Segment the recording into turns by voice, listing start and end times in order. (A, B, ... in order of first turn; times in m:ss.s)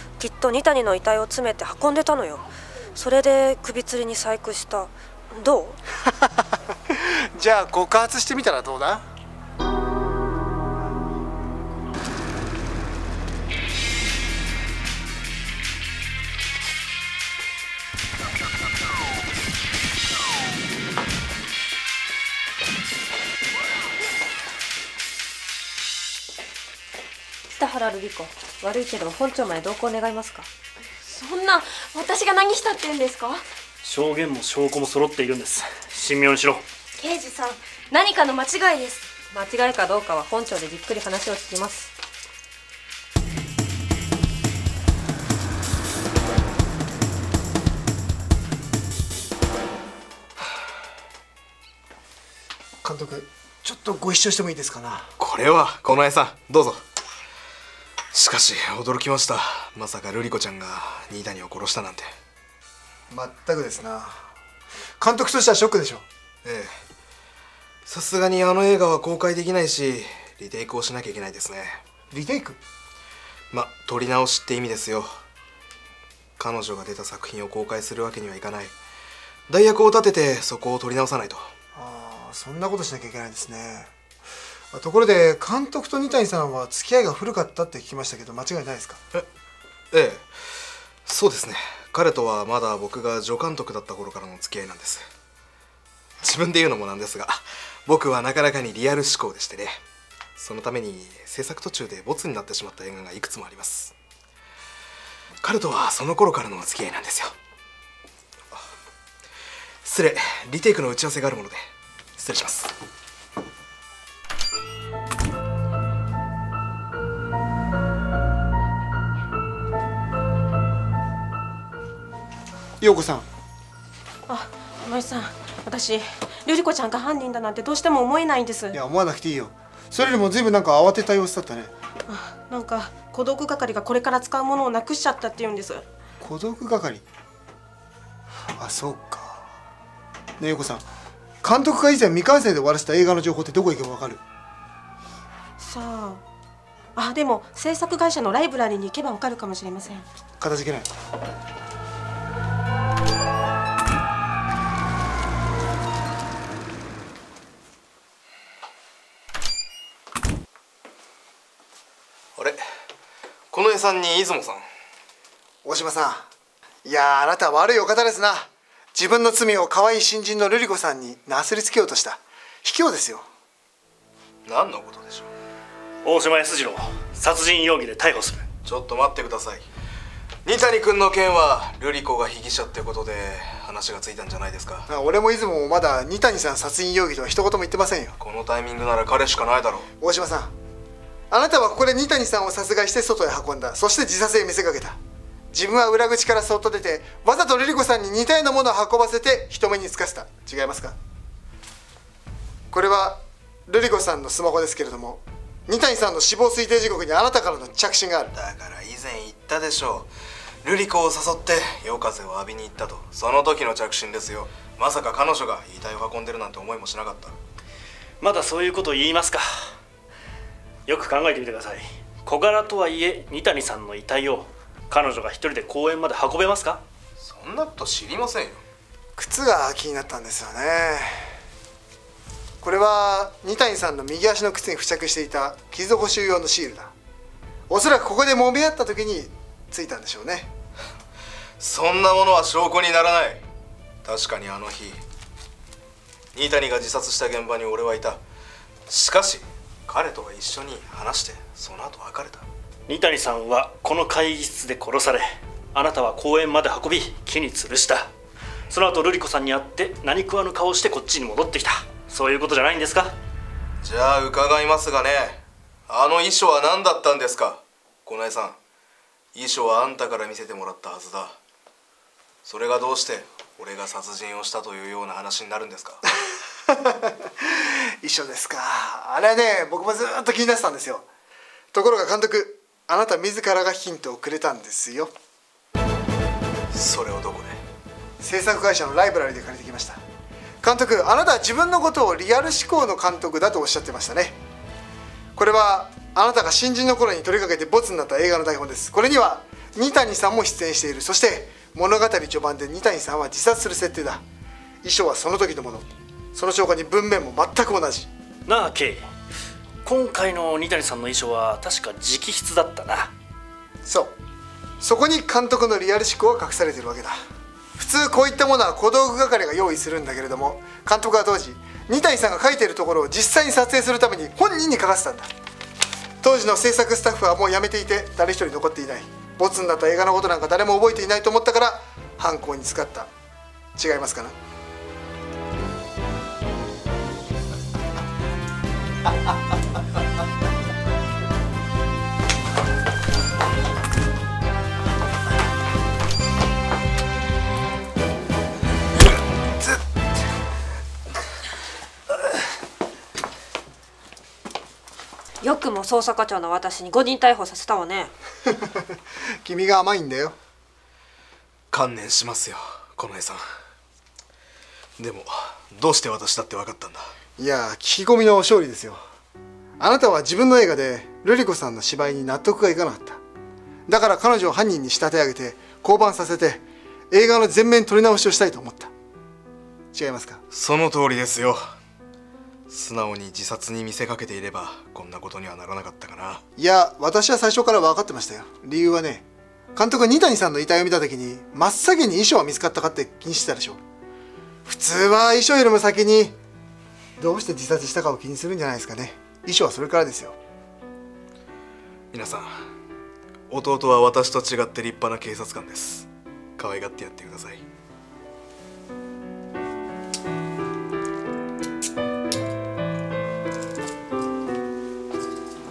0:00.2-0:05.8 A
0:06.1-0:09.0 B
0:27.6-0:30.5 A
0:31.0-0:33.4 C
0:33.8-0:36.6 D
0:37.0-0:39.1 E
0:39.3-0:41.9 A
0:52.8-0:55.1 B
0:55.2-0:56.8 F
0:58.1-1:02.1 F
1:03.1-1:04.2 B
1:05.0-1:06.0 B
1:06.4-1:06.7 F
1:07.9-1:11.8 F
1:12.1-1:12.6 B
1:13.5-1:15.2 F
1:16.4-1:18.7 F
1:19.5-1:21.5 F
1:21.7-1:23.9 B
1:24.7-1:29.0 B
1:29.9-1:30.3 F
1:31.0-1:35.1 F
1:36.2-1:39.8 F
1:40.4-1:43.9 F
1:45.4-1:47.3 F
1:49.8-1:52.7 F
2:02.8-2:03.2 B
2:04.3-2:08.8 G
2:08.7-2:11.7 B
2:12.1-2:15.8 G
2:16.2-2:17.0 B
2:18.6-2:19.4 B
2:20.4-2:20.8 B
2:21.4-2:24.2 B
2:25.6-2:26.2 G
2:27.0-2:30.1 G
2:30.4-2:30.9 B
2:42.4-2:42.6 F
2:43.5-2:44.6 F
2:45.6-2:46.3 B
2:46.8-2:53.2 B
2:54.4-2:55.3 F
2:56.0-2:58.5 D
2:58.6-2:59.7 F
3:00.4-3:04.9 F
3:04.9-3:08.2 B
3:08.2-3:09.9 F
3:10.0-3:10.5 B
3:11.3-3:15.0 B
3:15.5-3:21.0 B
3:22.7-3:28.3 B
3:28.3-3:30.1 F
3:30.6-3:37.3 F
3:38.2-3:39.4 D
3:40.9-3:46.8 D
3:47.2-3:48.6 F
3:49.2-3:51.4 B
3:52.6-3:56.9 B
3:57.7-4:00.5 B
4:01.6-4:03.4 F
4:04.0-4:05.0 F
4:06.3-4:08.2 F
4:08.9-4:12.4 F
4:12.9-4:18.1 D
4:18.7-4:23.2 D
4:23.8-4:28.6 F
4:29.3-4:31.4 F
4:32.4-4:36.0 F
4:36.7-4:41.0 B
4:41.7-4:45.1 B
4:46.7-4:47.6 F
4:48.2-4:50.0 B
4:50.6-4:54.4 B
4:55.3-5:04.2 B
5:04.8-5:08.1 B
5:08.5-5:09.1 D
5:09.8-5:13.1 D
5:13.8-5:14.1 B
5:14.8-5:17.1 B
5:17.8-5:25.3 B
5:26.2-5:33.1 B
5:33.8-5:34.3 B
5:55.4-5:58.1 A
5:58.5-5:58.8 B
5:59.4-6:00.4 B
6:01.7-6:03.4 F
6:05.0-6:07.1 F
6:07.4-6:09.0 B
6:09.8-6:13.2 B
6:13.9-6:18.9 B
6:19.9-6:20.4 B
6:20.5-6:21.6 F
6:22.7-6:26.4 F
6:26.6-6:33.8 B
6:34.6-6:36.4 B
6:37.2-6:40.4 B
6:42.1-6:42.5 F
6:43.5-6:47.6 F